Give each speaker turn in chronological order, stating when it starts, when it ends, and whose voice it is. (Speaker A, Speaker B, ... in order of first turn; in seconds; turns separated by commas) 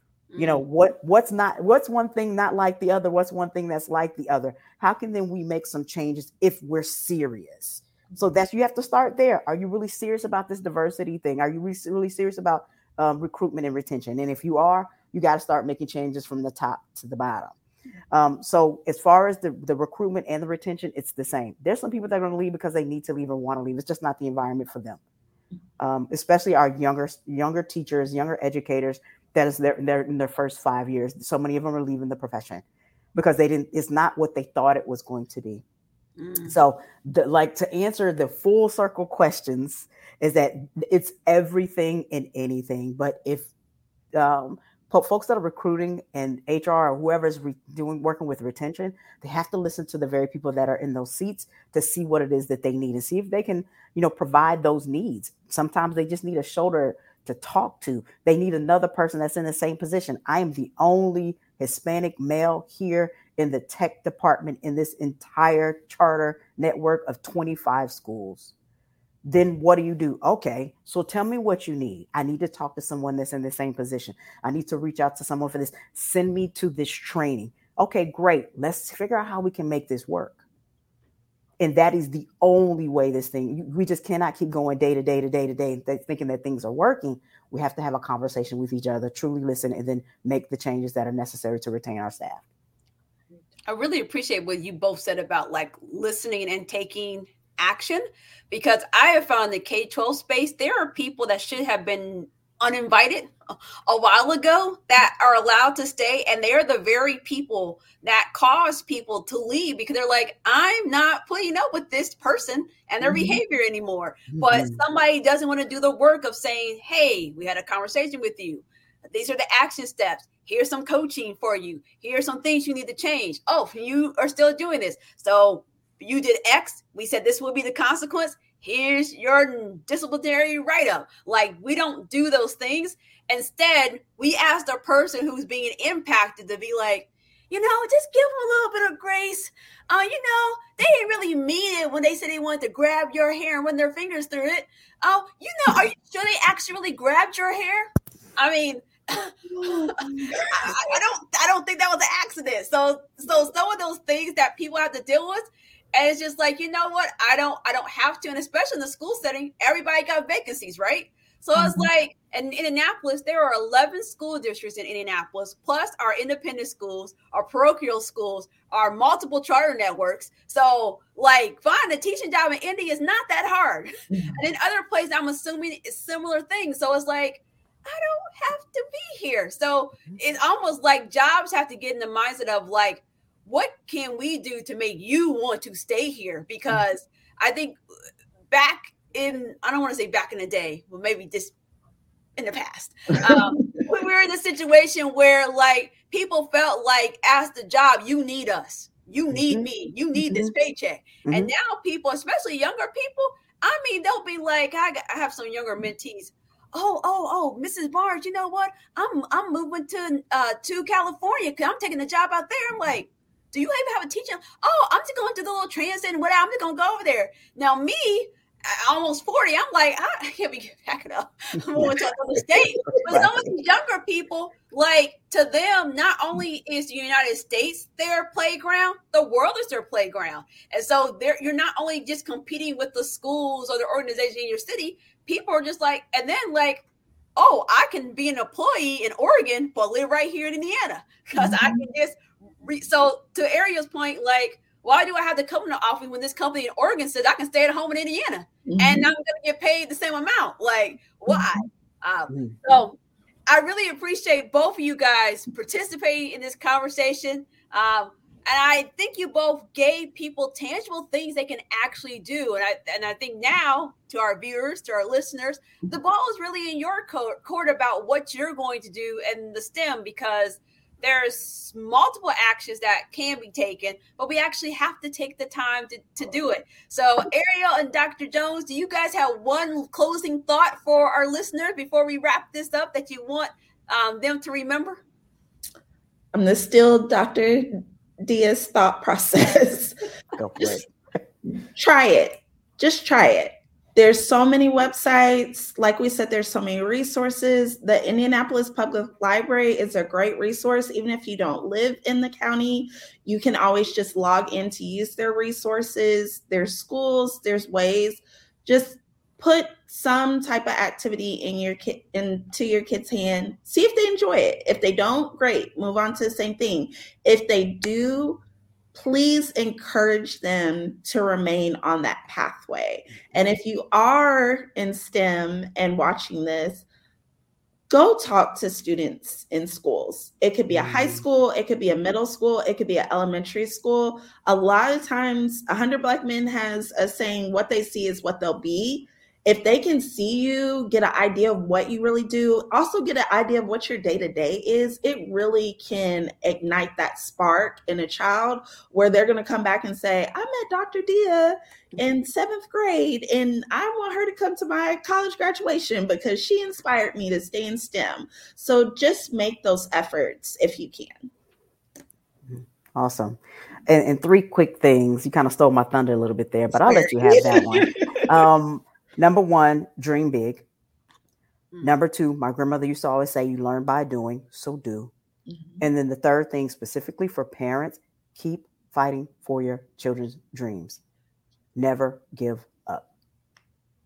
Speaker A: 0.3-0.6, Speaker B: 0.4-17.5, Speaker B: 18.1-25.0, Speaker B: 25.8-32.6, Speaker B: 33.1-35.6, Speaker A: 36.2-36.5, Speaker B: 36.5-43.5, Speaker B: 44.1-68.5, Speaker B: 69.2-80.4, Speaker B: 81.6-92.4, Speaker A: 93.7-103.3, Speaker A: 103.9-187.8, Speaker C: 113.0-113.4, Speaker B: 114.3-114.8, Speaker C: 149.6-150.8, Speaker C: 161.6-161.8, Speaker A: 188.5-191.5, Speaker A: 192.4-236.8, Speaker B: 199.3-199.6, Speaker B: 200.2-200.5, Speaker B: 201.2-201.5, Speaker B: 222.8-223.4, Speaker A: 237.4-285.0, Speaker C: 241.4-241.9, Speaker C: 248.7-249.1, Speaker C: 251.3-251.6, Speaker B: 252.3-252.6, Speaker C: 286.3-290.0, Speaker B: 290.4-290.9, Speaker C: 291.8-318.4, Speaker C: 318.9-326.9, Speaker B: 323.2-323.5, Speaker C: 327.9-361.3, Speaker B: 330.7-331.2, Speaker B: 362.5-370.6, Speaker C: 366.9-368.4, Speaker B: 371.8-375.1, Speaker C: 375.5-375.8, Speaker B: 375.8-381.0, Speaker B: 381.8-383.1